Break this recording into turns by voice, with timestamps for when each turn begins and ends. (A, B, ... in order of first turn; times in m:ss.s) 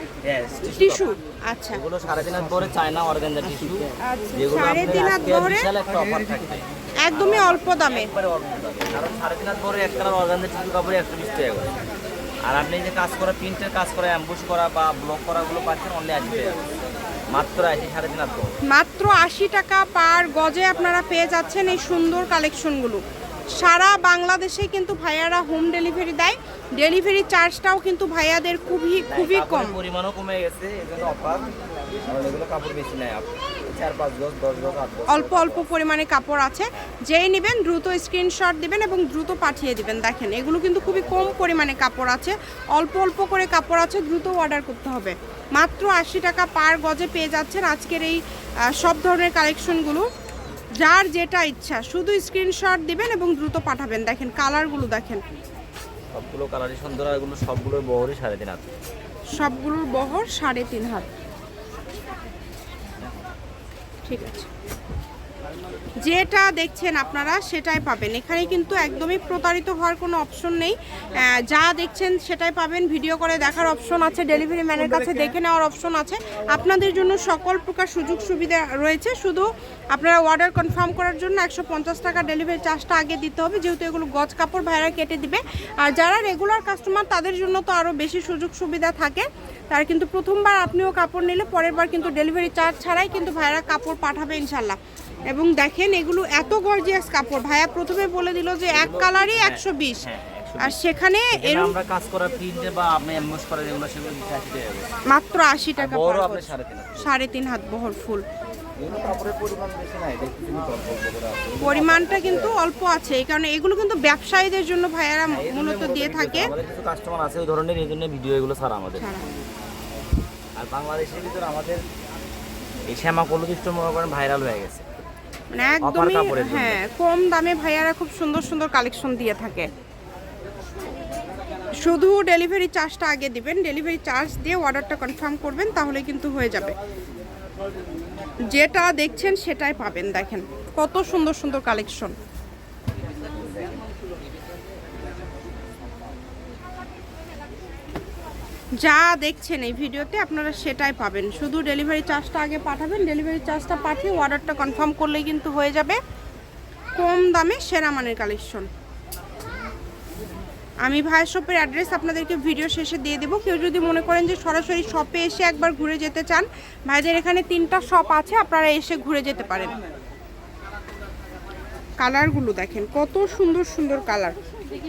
0:00.2-0:01.1 A
0:00.6-0:01.8 B
0:01.7-0:11.7 A
0:04.0-0:05.7 B
0:07.0-0:08.1 B
0:12.4-0:16.7 A
0:17.3-0:18.5 A
0:18.7-0:23.0 B
0:23.6-0:29.8 B
0:29.1-0:35.7 A
0:35.1-0:50.1 B
0:40.8-0:41.4 A
0:50.8-0:55.2 B
0:56.1-0:58.7 A
0:59.3-1:01.1 B
1:04.0-1:04.5 B
1:06.0-1:34.8 B
1:35.3-1:40.1 B
1:38.7-1:40.8 A
1:40.6-1:41.7 B
1:41.3-1:44.9 A
1:45.1-1:48.2 B
1:45.8-1:47.1 A
1:48.8-1:52.6 A
1:51.6-1:56.5 B
1:55.2-1:59.1 A
1:59.0-1:59.2 B
2:00.6-2:01.8 A
2:02.9-2:04.8 A
2:05.5-2:09.7 B
2:05.8-2:06.8 A
2:11.8-2:16.7 B
2:18.5-2:22.1 B
2:23.3-2:23.8 A
2:28.8-2:36.0 B
2:37.0-2:38.7 B
2:40.8-2:49.7 B
2:52.0-2:54.4 B